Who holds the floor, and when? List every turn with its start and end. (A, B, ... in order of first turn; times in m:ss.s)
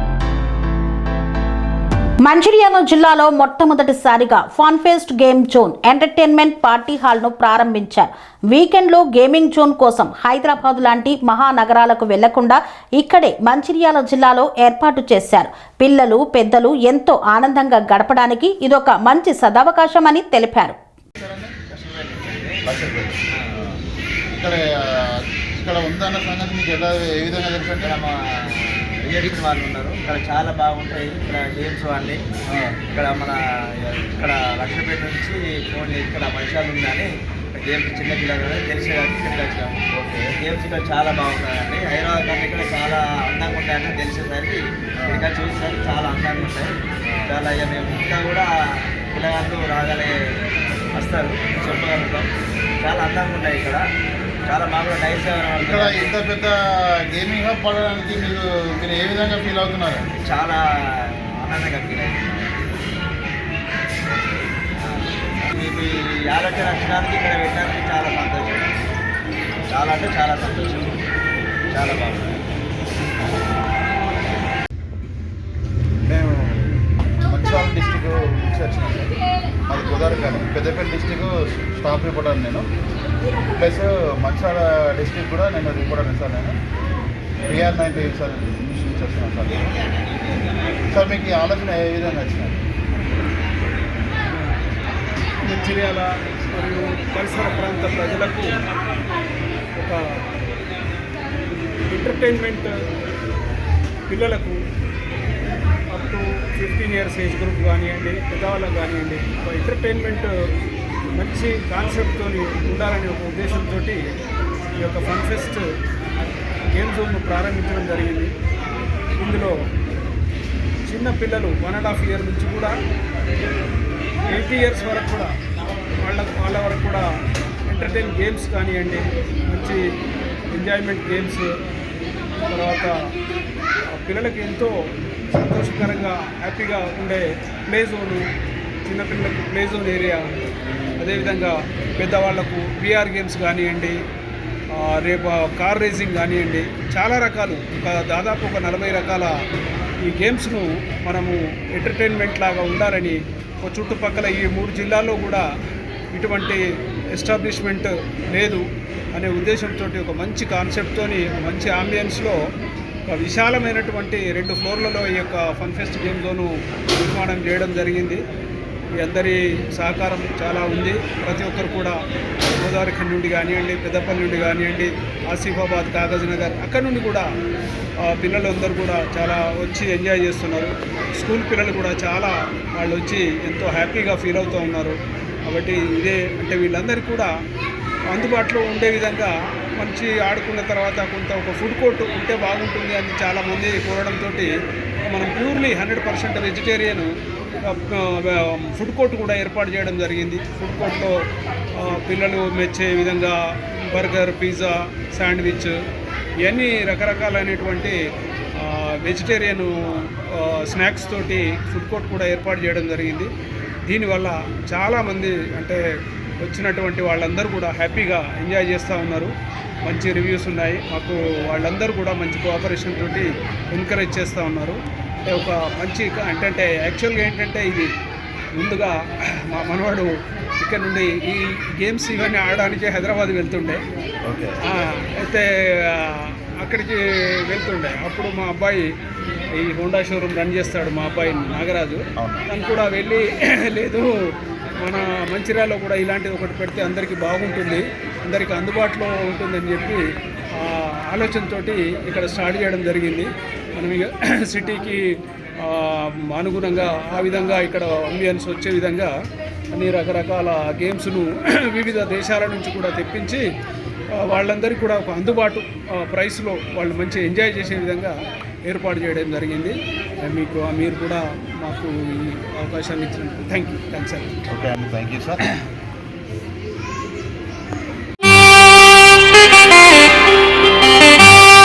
0:02.2-0:20.8 A
0:21.2-0:21.5 B
0:21.7-0:22.6 C
0:22.6-0:23.2 B
0:24.3-0:27.9 B
0:27.8-0:32.2 C
0:32.5-0:32.8 B
0:32.9-0:39.8 C
0:39.9-0:40.3 B
0:40.4-0:46.8 C
0:45.0-0:45.2 B
0:47.1-0:47.3 B
0:47.3-0:50.2 C
0:50.9-0:52.3 C
0:52.8-0:53.9 C
0:54.4-0:56.1 C
0:55.6-1:00.0 B
1:00.1-1:02.6 C
1:04.8-1:08.7 C
1:09.7-1:11.0 C
1:11.7-1:12.4 C
1:16.0-1:16.8 B
1:17.3-1:22.6 B
1:23.6-1:26.6 B
1:27.5-1:29.7 B
1:30.9-1:32.6 B
1:34.3-1:34.6 D
1:35.4-1:38.5 D
1:39.8-1:40.2 D
1:41.9-1:42.7 D
1:44.1-1:44.6 D
1:45.9-1:50.3 D
1:51.1-1:54.0 D
1:54.8-1:55.6 D
1:56.7-1:58.3 D
1:59.2-1:59.6 D
2:00.9-2:02.7 D
2:04.3-2:05.3 D
2:06.0-2:07.0 D
2:07.7-2:09.8 D
2:10.5-2:11.5 D
2:12.5-2:12.9 D
2:13.9-2:14.7 D
2:15.3-2:18.2 D
2:18.8-2:20.2 D
2:21.0-2:24.0 D
2:24.7-2:29.3 D
2:30.0-2:35.4 D
2:36.1-2:36.6 D
2:37.1-2:42.4 D
2:43.1-2:48.2 D
2:49.0-2:52.0 D
2:52.6-2:57.2 D
2:58.0-3:07.3 D
3:08.1-3:14.5 D
3:15.1-3:21.2 D
3:21.8-3:25.8 D
3:26.4-3:28.0 D
3:28.6-3:33.3 D
3:33.9-3:35.8 D
3:36.4-3:39.3 D
3:39.8-3:47.9 D
3:48.6-3:53.8 D
3:54.3-3:54.6 B
3:54.6-3:58.8 D
3:59.5-4:04.1 D
4:02.2-4:02.4 B
4:04.8-4:10.0 D
4:10.6-4:19.1 D
4:19.7-4:23.4 D
4:24.1-4:28.1 D
4:28.6-4:34.4 D
4:34.5-4:35.4 B